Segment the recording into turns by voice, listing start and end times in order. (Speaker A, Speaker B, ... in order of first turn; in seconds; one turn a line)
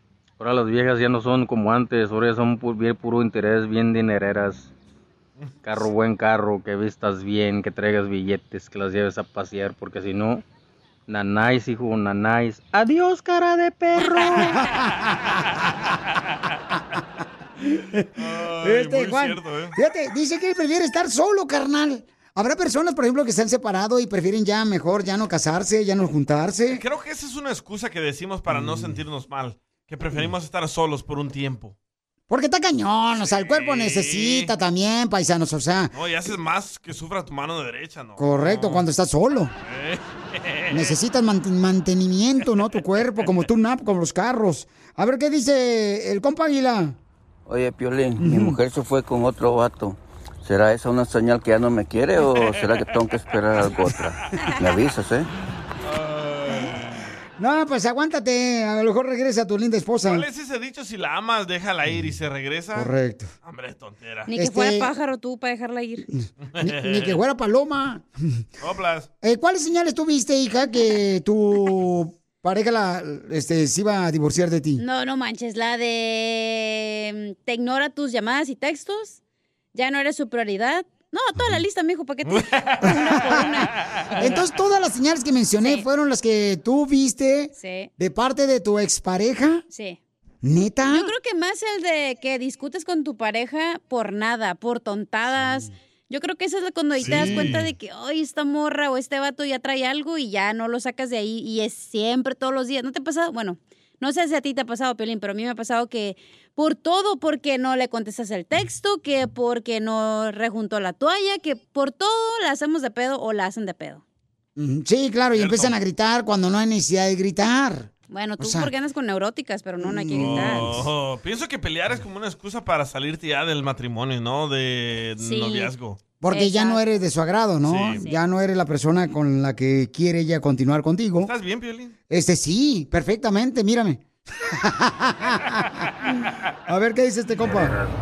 Speaker A: 0.4-4.7
Speaker A: 5.6-10.4
Speaker A: 11.1-14.5
Speaker B: 14.0-15.1
Speaker B: 17.7-18.1
Speaker C: 18.1-19.7
Speaker B: 18.6-26.8
Speaker C: 26.7-31.8
Speaker B: 28.5-29.0
Speaker B: 32.3-35.9
Speaker C: 33.2-34.5
Speaker C: 35.9-38.9
Speaker B: 38.2-39.5
Speaker C: 39.6-40.9
Speaker B: 40.7-47.0
Speaker D: 47.5-55.3
Speaker B: 48.2-48.5
Speaker C: 55.8-56.8
Speaker B: 57.4-60.2
Speaker C: 60.0-62.9
Speaker B: 62.7-63.3
Speaker C: 63.4-64.3
Speaker E: 64.3-66.1
Speaker B: 64.3-64.9
Speaker B: 66.1-68.1
Speaker C: 66.6-67.2
Speaker C: 68.6-69.1
Speaker B: 69.2-74.8
Speaker E: 74.8-79.2
Speaker E: 79.7-83.7
Speaker C: 82.3-82.9
Speaker B: 82.9-83.5
Speaker B: 84.2-89.6
Speaker E: 85.6-85.8
Speaker E: 87.5-87.9
Speaker E: 89.7-90.0
Speaker B: 90.4-91.1
Speaker E: 90.9-114.0
Speaker C: 97.0-97.7
Speaker B: 97.0-97.6
Speaker B: 114.5-118.7
Speaker C: 115.3-115.8
Speaker E: 118.1-120.7
Speaker B: 119.8-120.8
Speaker C: 120.1-126.0
Speaker E: 125.2-125.7
Speaker B: 126.2-131.3
Speaker E: 126.3-126.8
Speaker C: 127.6-128.0
Speaker E: 127.9-128.2
Speaker C: 131.2-131.9
Speaker B: 132.1-135.8
Speaker B: 136.7-137.8